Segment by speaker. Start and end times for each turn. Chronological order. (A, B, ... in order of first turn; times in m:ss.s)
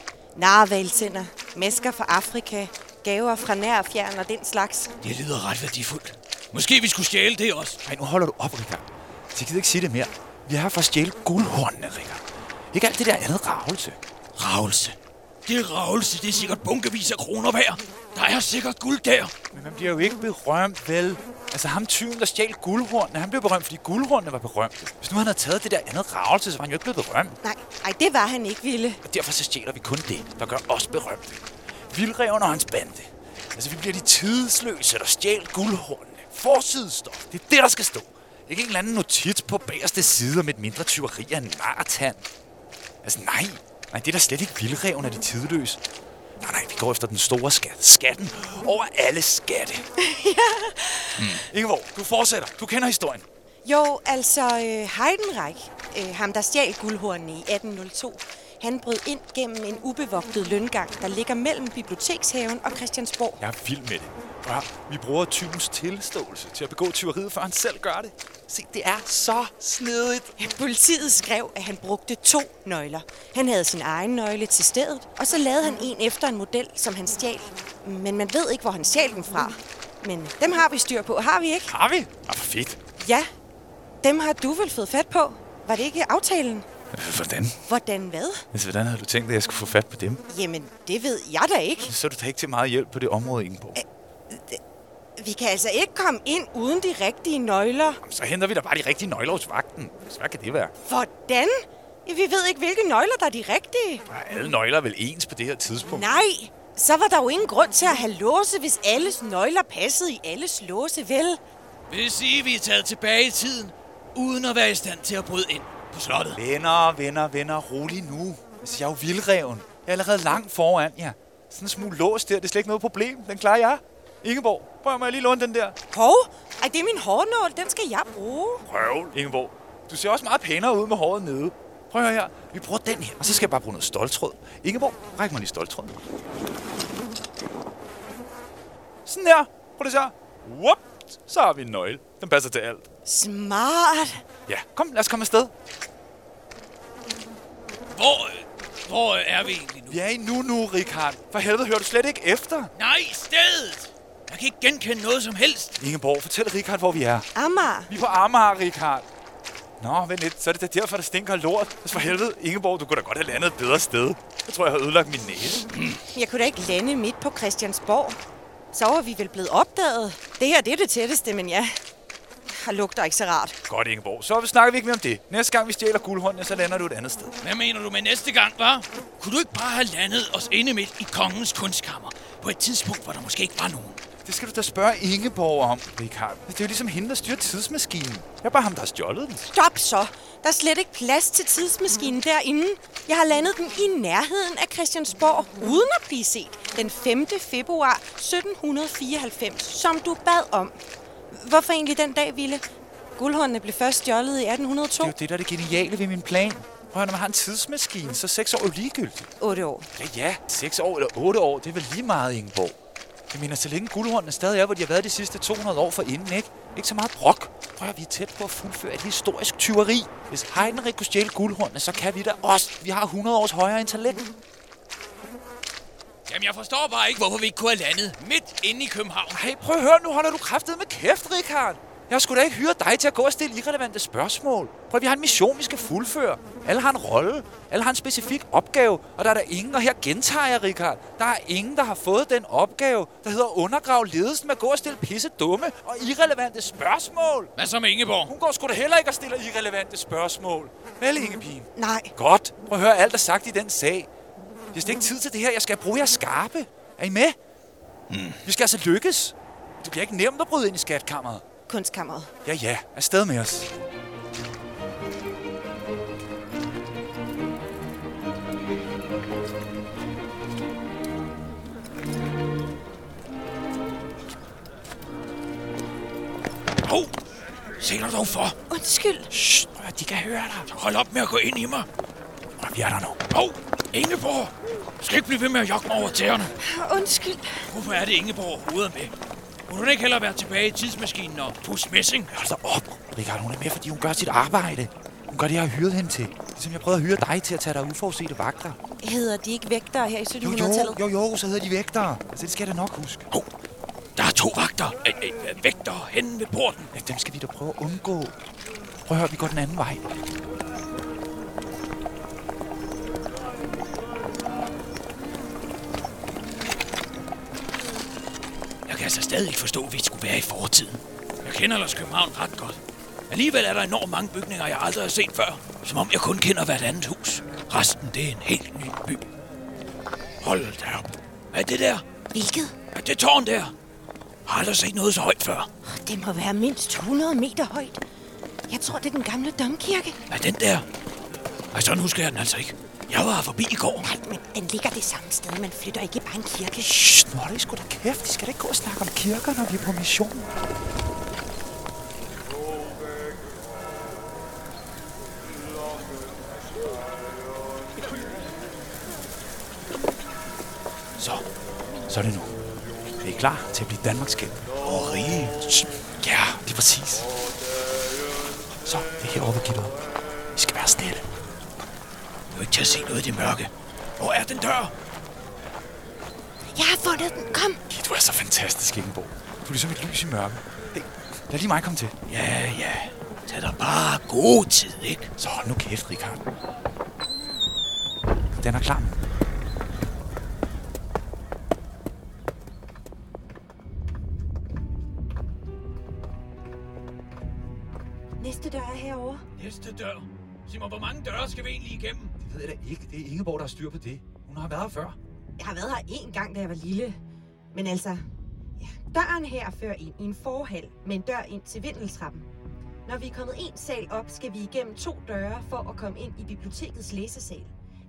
0:00.4-0:04.9 A
0:05.0-0:07.8 B
0:07.8-0:14.0 C
0:14.4-0:19.3 B
0:19.5-0:27.4 C
0:27.4-0:29.0 A
0:29.0-0:42.2 C
0:43.0-0:45.8 C
0:46.4-0:49.9 C
0:50.0-0:51.3 A
0:51.3-0:53.2 C
0:53.6-1:03.4 A
1:03.4-1:10.3 C
1:10.4-1:21.7 A
1:21.7-1:22.8 C
1:23.0-1:23.3 A
1:24.0-1:26.7 A
1:26.9-1:27.6 C
1:27.7-1:28.4 A
1:28.5-1:30.2 C
1:30.3-1:31.9 A
1:31.9-1:33.8 C
1:33.8-1:34.6 A
1:35.2-1:38.0 A
1:38.0-1:40.7 C
1:40.9-1:44.0 A
1:44.1-1:46.1 C
1:45.9-1:51.4 A
1:51.9-1:56.4 B
1:56.3-2:05.8 C
2:05.9-2:08.7 A
2:08.7-2:16.0 C
2:19.1-2:22.9 C
2:23.1-2:24.2 A
2:24.5-2:25.5 C
2:28.0-2:30.0 B
2:29.9-2:32.7 C
2:32.8-2:35.7 B
2:35.8-2:37.3 C
2:37.4-2:37.9 A
2:37.9-2:39.1 C
2:39.8-2:45.6 C
2:45.7-2:46.0 B
2:46.1-2:48.2 A
2:48.7-2:51.8 A
2:52.5-2:53.6 A
2:53.7-2:57.3 C
2:57.4-3:04.0 B
3:04.2-3:09.5 C
3:09.5-3:20.8 A
3:21.3-3:22.6 A
3:23.2-3:25.1 A
3:25.0-3:29.3 C
3:29.4-3:29.9 A
3:30.0-3:32.8 C
3:33.3-3:44.3 C
3:46.3-3:49.4 B
3:49.3-4:07.5 C
4:07.6-4:08.3 B
4:08.3-4:14.1 C
4:11.8-4:12.1 A
4:14.7-4:17.4 C
4:18.1-4:18.4 B
4:18.4-4:21.4 C
4:21.7-4:22.3 A
4:22.4-4:23.7 C
4:36.8-4:37.1 B
4:37.8-4:38.6 B
4:38.7-4:39.3 A
4:39.3-4:40.7 C
4:40.7-4:41.9 B
4:42.6-4:43.3 C
4:43.3-4:46.5 B
4:46.6-4:47.6 A
4:47.7-4:49.1 B
4:49.7-4:52.3 B
4:52.3-4:58.8 C
4:59.0-5:01.0 A
5:00.4-5:03.3 C
5:04.2-5:06.9 B
5:06.9-5:08.4 C
5:09.1-5:10.0 C
5:18.9-5:29.2 B
5:30.4-5:32.0 B
5:32.3-5:32.8 A
5:32.9-5:33.7 B
5:34.5-5:35.7 B
5:35.8-5:38.0 A
5:38.7-5:40.2 A
5:40.3-5:40.9 B
5:41.7-5:44.0 B
5:44.0-5:46.9 A
5:46.8-5:50.5 C
6:02.1-6:02.5 C
6:03.2-6:04.6 C
6:04.8-6:05.8 B
6:06.2-6:07.3 C
6:08.8-6:10.0 C
6:10.5-6:11.2 C
6:12.5-6:14.9 B
6:16.7-6:17.8 A
6:17.9-6:22.2 C
6:22.3-6:25.3 B
6:25.4-6:26.4 C
6:28.6-6:29.2 C
6:38.4-6:39.4 A
6:39.6-6:42.3 B
6:42.4-6:45.2 C
6:45.6-6:47.2 A
6:47.7-6:48.2 A
6:48.8-6:52.5 A
6:53.1-6:57.7 A